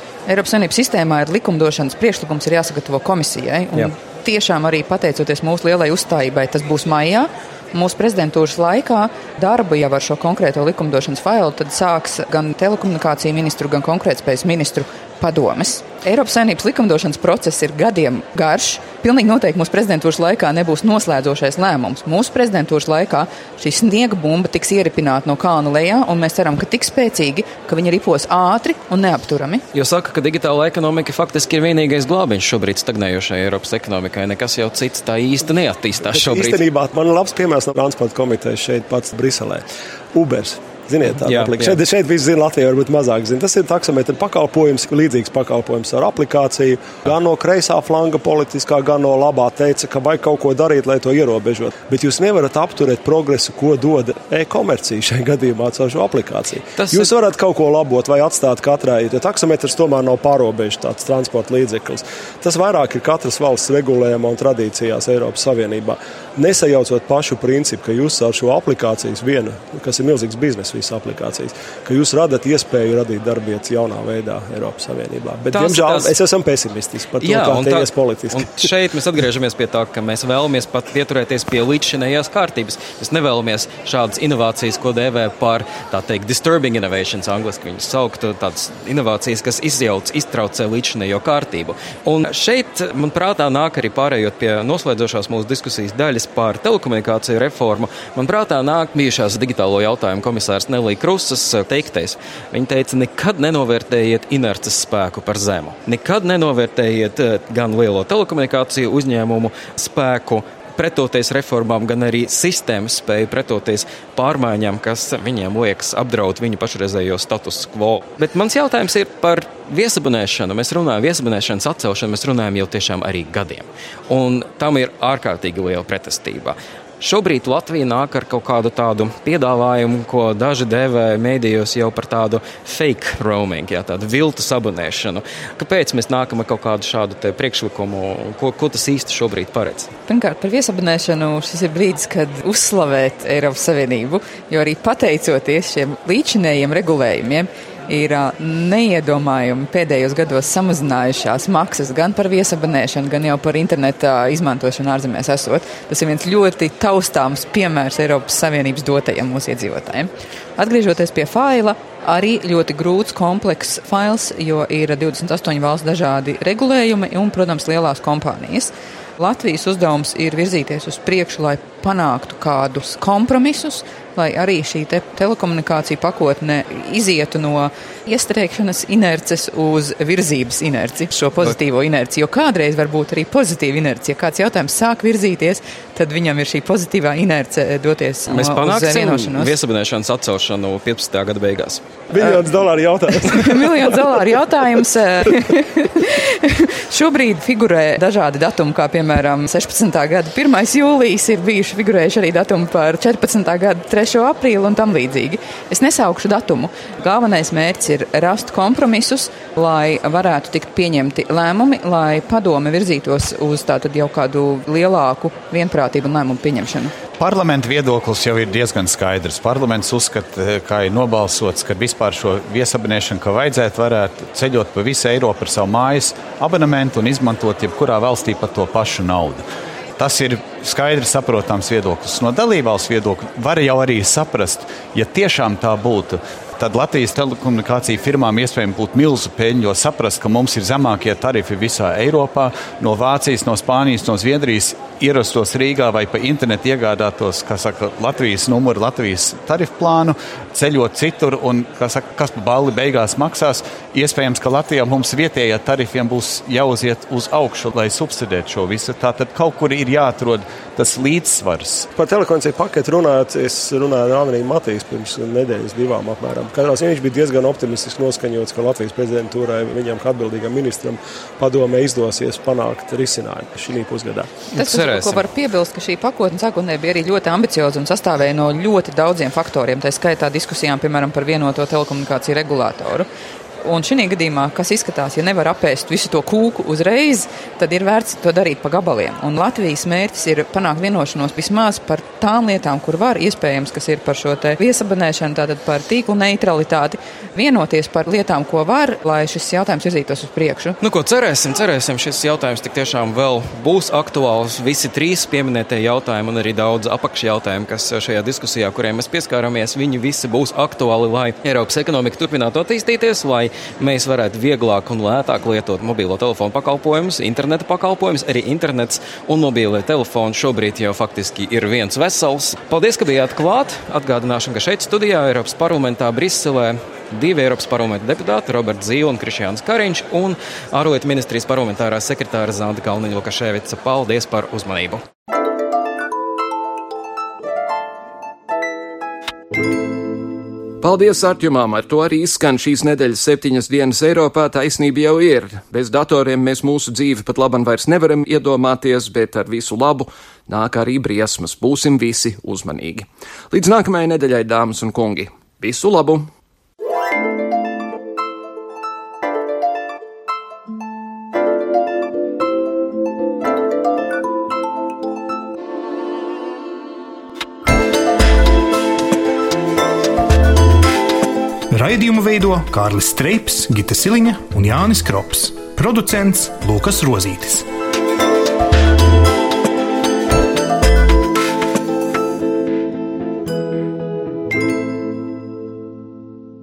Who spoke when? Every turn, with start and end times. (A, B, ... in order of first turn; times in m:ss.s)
0:00.3-0:29.6 A
0:29.7-0:36.6 B
0:36.0-1:18.7 C
0:41.1-0:41.8 B
0:56.8-0:57.1 B
1:15.5-1:16.2 B
1:17.2-2:19.9 B
2:20.1-3:09.5 A
3:08.3-3:12.0 B
3:12.1-3:13.8 C
3:13.1-3:37.0 A
3:37.2-3:49.4 D
3:50.0-4:21.9 D
4:22.0-4:34.4 C
4:34.5-4:35.3 B
4:34.5-4:43.1 A
4:43.6-5:00.8 A
5:00.8-5:35.0 B
5:40.8-5:56.3 E
6:11.7-6:17.6 F